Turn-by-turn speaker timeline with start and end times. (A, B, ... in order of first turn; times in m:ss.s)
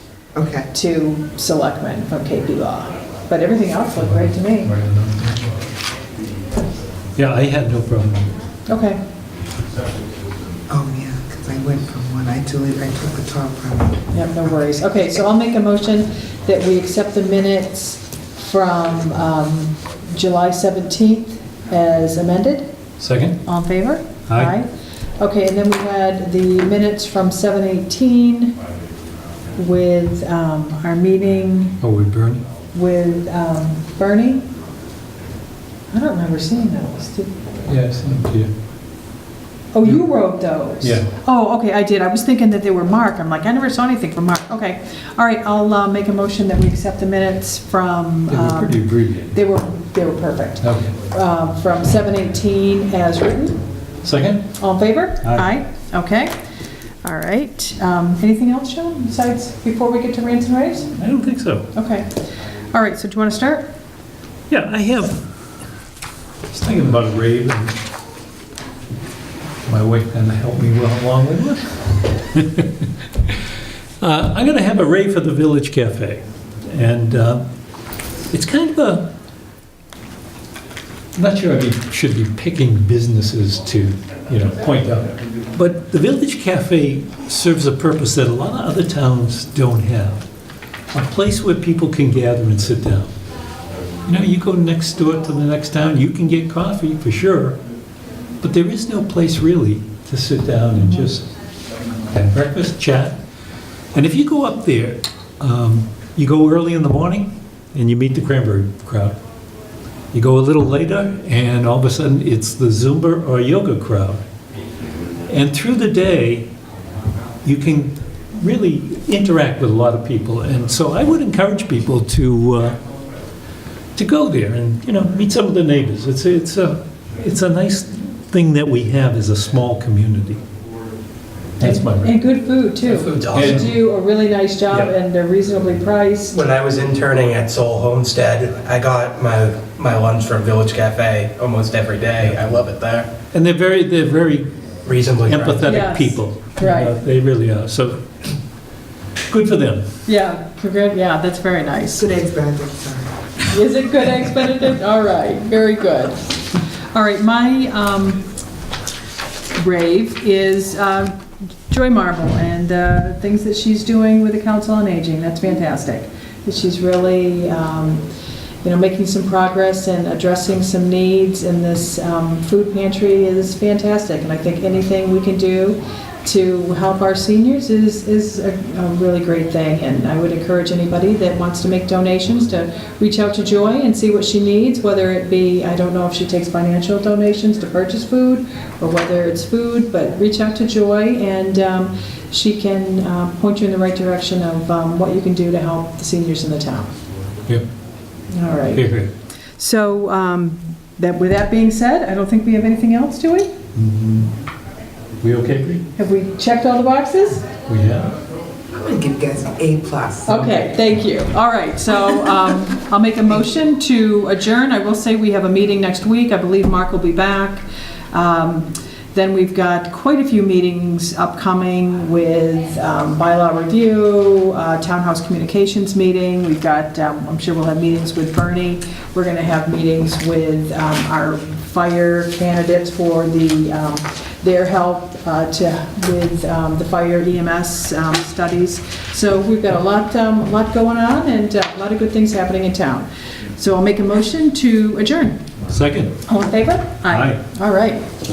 0:00.3-0:00.7 A
0:00.7-0:04.7 B
0:04.6-0:05.4 C
0:07.2-0:08.3 C
0:08.7-0:09.0 B
0:10.7-0:14.0 A
0:14.1-0:22.7 B
0:23.0-0:23.4 C
0:23.4-0:28.6 B
0:29.5-0:31.8 B
0:31.8-0:32.4 C
0:32.7-0:34.5 B
0:35.9-0:37.4 B
0:37.6-0:38.5 C
0:39.7-0:53.6 B
0:40.8-0:41.1 C
0:48.3-0:49.3 C
0:50.6-0:50.9 C
0:54.0-0:54.5 C
0:54.6-0:56.3 B
0:55.2-0:55.5 C
0:57.0-1:01.0 B
1:01.0-1:01.7 C
1:01.7-1:02.2 B
1:02.7-1:03.7 B
1:04.5-1:05.2 C
1:06.5-1:07.8 C
1:09.6-1:13.4 C
1:14.0-1:17.4 C
1:18.3-1:19.1 C
1:21.2-1:30.2 C
1:30.9-1:33.1 C
1:34.0-1:37.6 C
1:38.4-1:41.3 C
1:42.1-1:43.2 C
1:43.9-1:49.2 C
1:50.1-1:54.2 C
1:55.3-1:56.4 C
1:57.4-2:02.8 C
2:04.0-2:10.4 C
2:11.6-2:12.2 C
2:11.6-2:16.4 B
2:12.9-2:13.6 D
2:13.3-2:13.7 C
2:16.3-2:23.1 D
2:23.3-2:24.5 C
2:24.8-2:25.6 D
2:25.2-2:28.3 C
2:25.6-2:26.9 B
2:29.3-2:29.8 C
2:30.0-2:32.1 B
2:31.9-2:33.1 A
2:33.5-2:36.4 B
2:36.9-2:38.2 B
2:39.6-2:48.0 B
2:48.6-3:16.9 B
3:18.3-3:18.8 B
3:18.7-3:19.1 C
3:19.6-3:23.5 B
3:23.7-3:24.3 C
3:25.2-3:25.8 C
3:26.0-3:27.5 B
3:27.6-3:28.1 C
3:28.7-3:30.4 A
3:30.2-4:05.4 B
4:05.7-4:06.2 C
4:06.2-4:08.1 B
4:07.1-4:07.4 C